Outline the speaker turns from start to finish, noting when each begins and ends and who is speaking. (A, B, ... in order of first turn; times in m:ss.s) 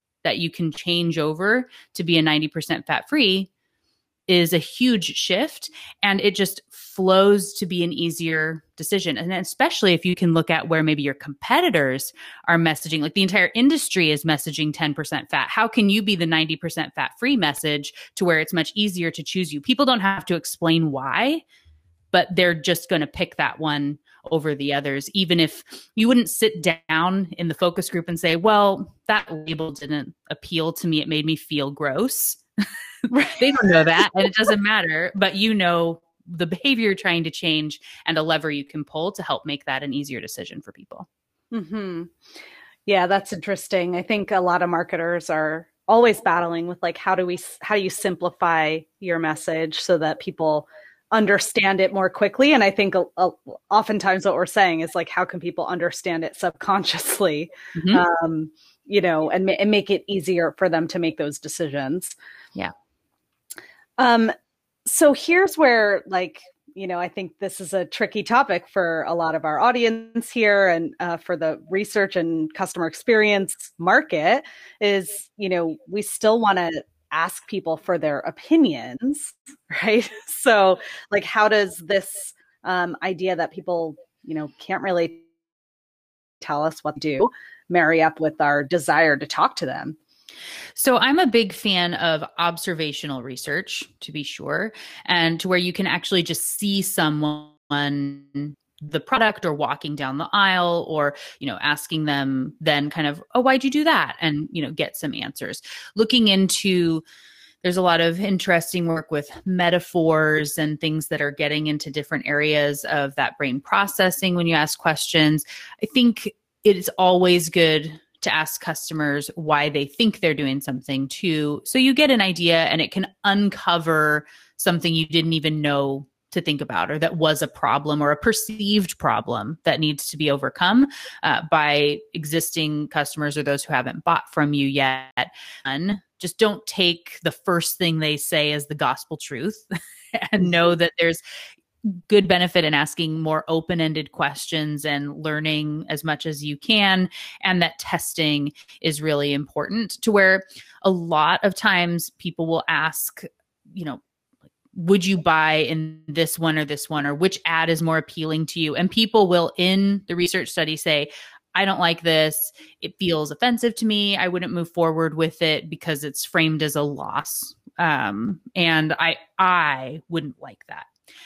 0:00.2-0:03.5 A
0:04.3-0:21.4 A
0:22.1-0:32.4 A
0:33.1-0:34.1 B
0:33.2-0:41.1 A
0:41.5-0:42.1 B
0:42.9-1:02.1 B
0:57.8-0:58.0 A
1:04.0-1:04.3 B
1:04.8-1:25.2 B
1:26.4-1:30.0 B
1:30.8-1:47.0 A
1:47.6-2:21.2 A
2:21.8-2:34.0 A
2:34.7-2:50.9 A